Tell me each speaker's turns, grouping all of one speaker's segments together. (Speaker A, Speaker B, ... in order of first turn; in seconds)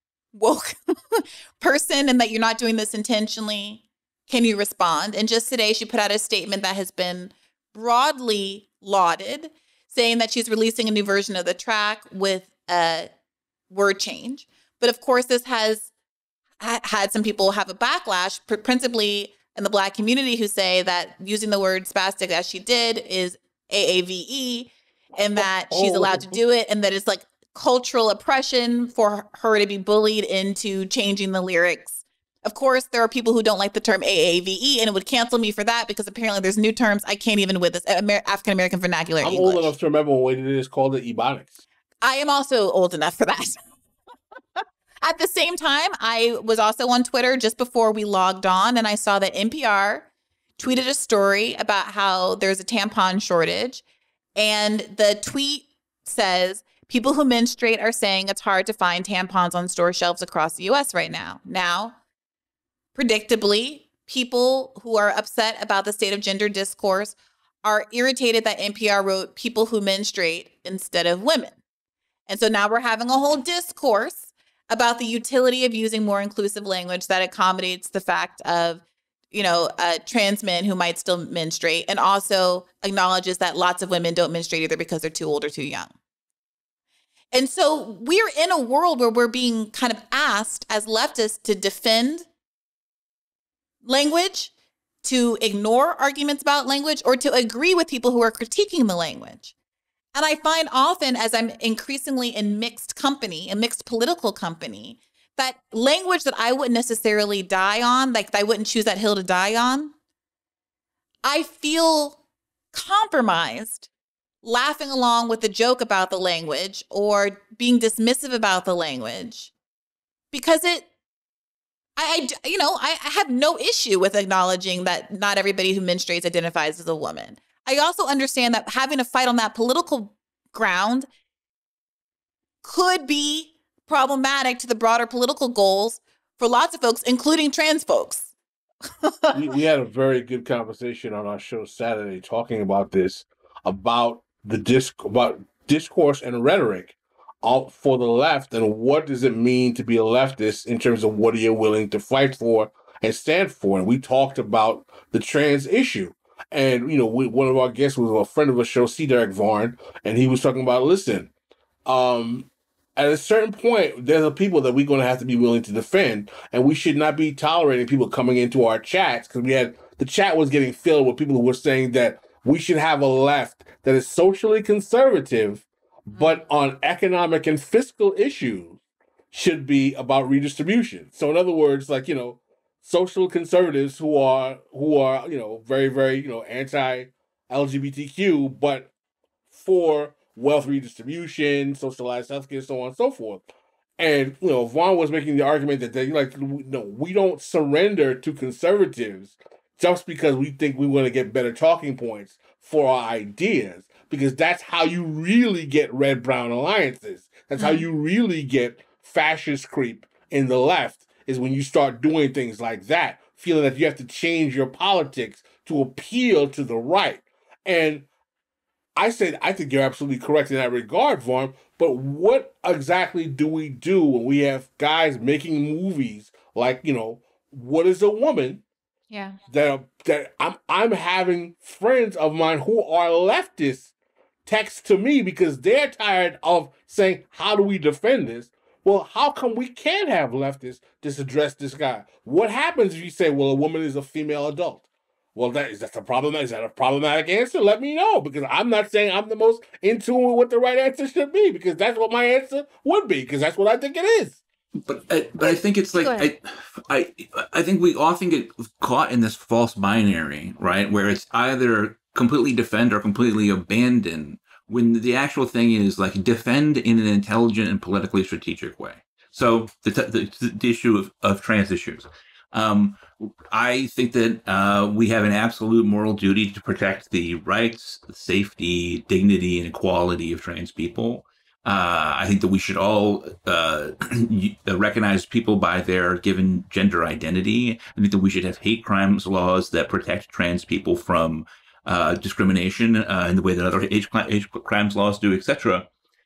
Speaker A: 0.3-13.1, 13.7-15.9, 16.6-39.7, 42.0-43.6, 45.0-53.8, 54.4-62.0, 62.9-71.6, 72.3-85.9, 87.3-92.3, 93.8-94.5, 95.0-99.5, 100.1-109.9, 111.2-112.2, 112.7-113.9, 114.4-119.5, 120.3-120.9, 122.0-131.1, 132.6-138.3, 139.0-139.5, 176.1-176.4, 207.6-207.8, 229.1-229.4, 256.0-256.3
Speaker B: 25.2-26.4, 39.2-41.6, 139.3-161.3, 161.8-178.8, 179.3-188.9, 189.5-193.4, 194.0-218.0, 218.9-228.6, 229.5-233.9, 234.4-244.8, 245.3-254.4
Speaker C: 254.8-295.9